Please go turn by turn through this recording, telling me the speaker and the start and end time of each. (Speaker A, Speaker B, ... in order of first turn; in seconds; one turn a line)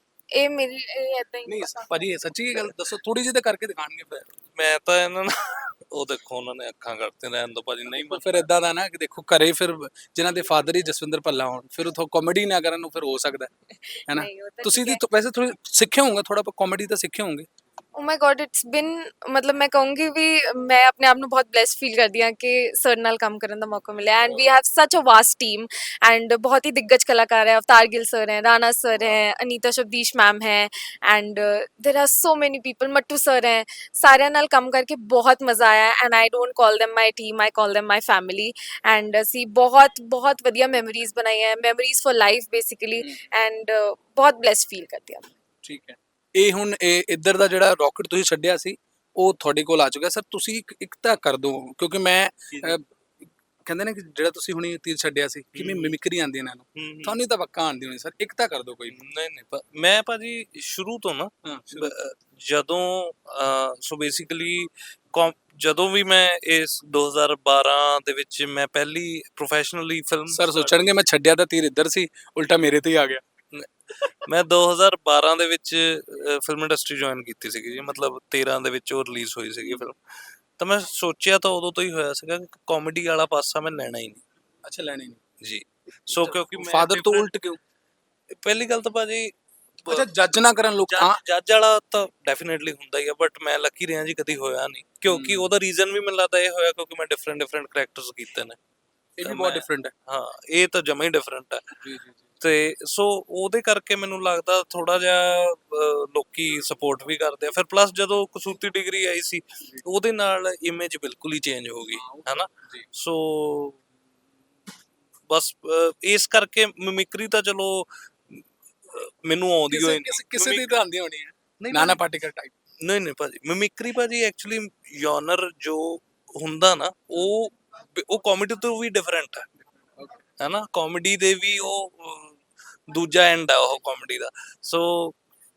Speaker A: 0.3-1.9
Speaker B: 1.4-4.2
Speaker C: 4.1-8.4
Speaker B: 7.9-13.5
Speaker A: 13.9-15.0
Speaker B: 14.1-17.5
Speaker A: 17.9-45.3
Speaker B: 43.0-43.3
Speaker B: 45.6-52.8
Speaker C: 52.5-52.8
Speaker B: 53.6-59.0
Speaker C: 55.5-55.9
Speaker C: 56.8-57.1
Speaker C: 58.9-70.9
Speaker B: 61.4-61.9
Speaker B: 70.3-73.2
Speaker C: 74.3-84.2
Speaker B: 84.6-85.2
Speaker C: 85.4-87.3
Speaker B: 86.1-87.6
Speaker C: 88.4-89.3
Speaker B: 89.9-91.2
Speaker C: 90.9-98.6
Speaker B: 95.1-95.5
Speaker B: 99.2-99.9
Speaker C: 99.2-101.7
Speaker B: 101.8-102.4
Speaker C: 102.4-113.8
Speaker B: 111.9-112.9
Speaker C: 115.3-120.8
Speaker B: 119.7-122.5
Speaker C: 121.6-122.0
Speaker C: 122.8-129.5
Speaker C: 130.4-135.2